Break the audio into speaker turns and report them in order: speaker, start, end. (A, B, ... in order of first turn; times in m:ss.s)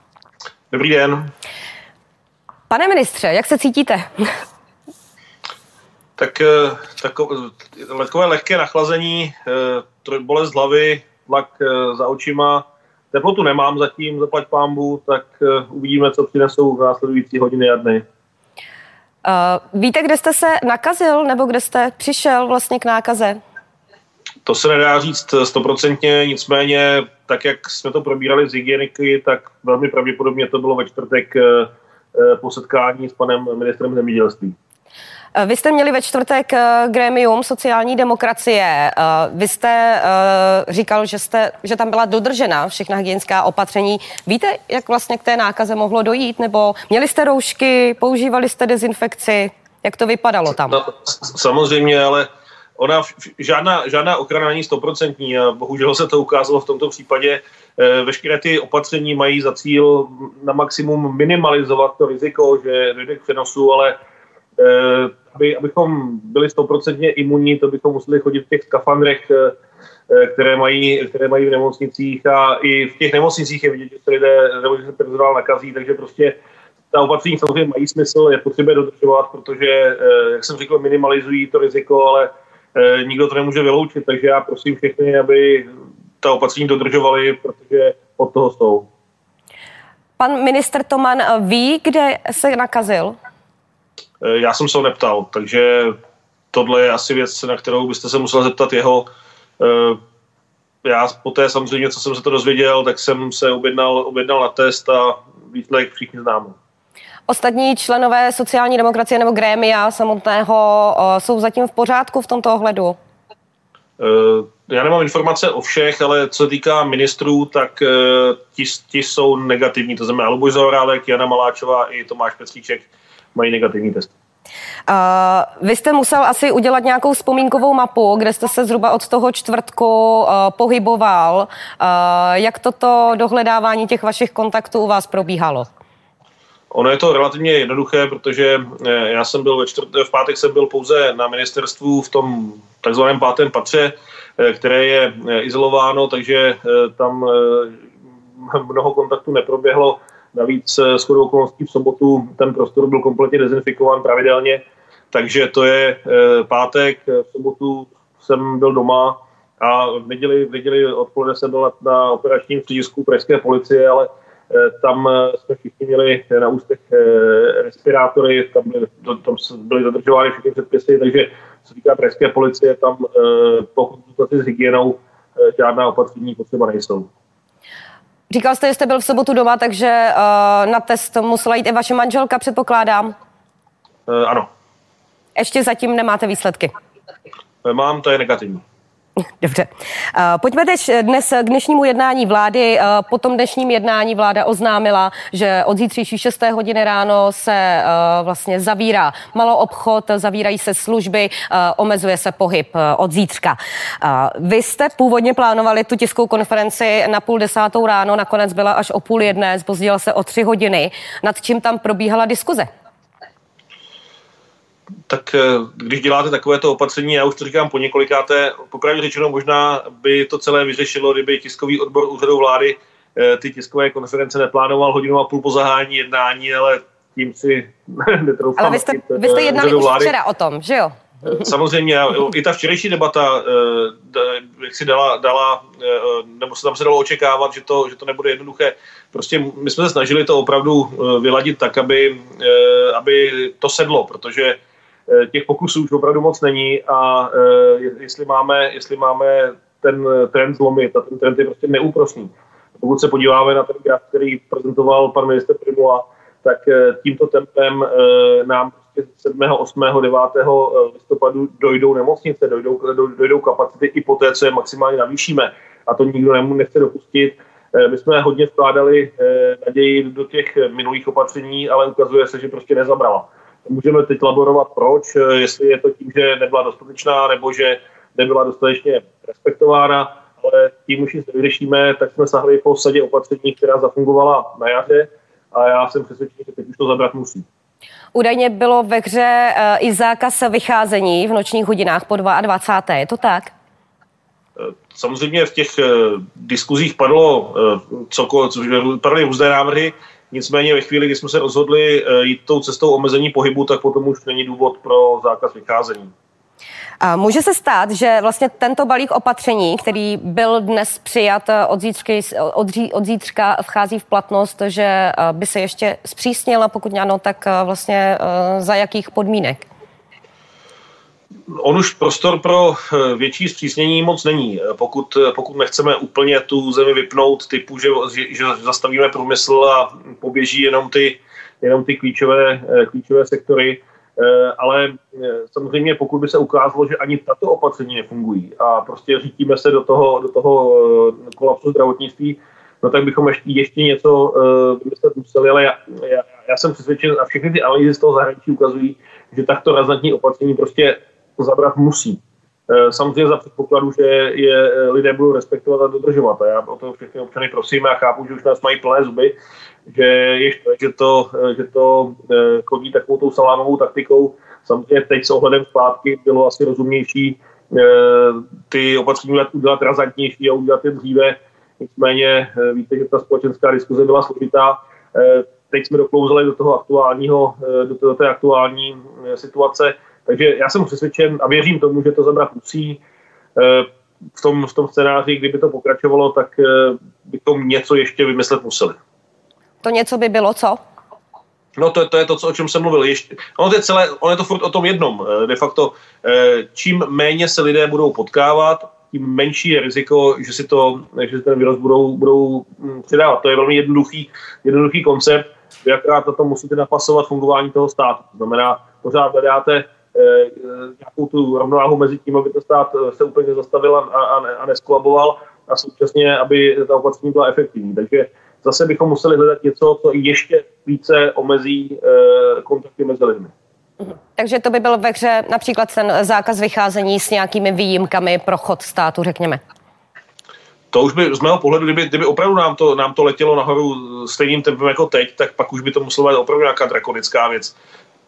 0:00.7-0:01.3 A
0:02.7-0:04.3 B
0:06.2-0:18.0 A
0:19.2-0:23.4 B
0:24.4-0:34.6 A
0:35.3-0:50.8 B
0:50.7-1:04.0 A
1:04.6-1:09.5 A
1:10.1-1:16.4 A
1:16.9-1:25.7 A
1:26.2-1:28.9 A
1:30.2-1:33.2 B
1:34.2-1:36.0 A
1:36.5-1:39.1 A
1:39.6-1:40.0 A
1:40.8-1:46.6 A
1:47.3-1:53.0 B
1:54.0-2:04.1 A
2:04.9-2:15.7 B
2:16.7-2:27.8 A
2:28.4-2:57.1 A
2:58.3-3:03.1 B
3:04.1-3:04.5 A
3:05.4-3:06.7 B
3:07.6-3:08.6 A
3:09.4-3:32.7 B
3:35.1-3:50.1 A
3:48.6-3:51.1 B
3:51.2-4:47.4 A
4:48.1-4:53.5 B
4:54.6-5:06.1 A
5:07.0-5:19.6 B
5:21.5-5:59.3 A
5:59.9-6:23.0 A
6:23.6-6:29.0 A
6:29.8-6:30.8 B
6:31.8-7:03.5 A
7:04.4-7:09.6 B
7:10.9-7:17.8 A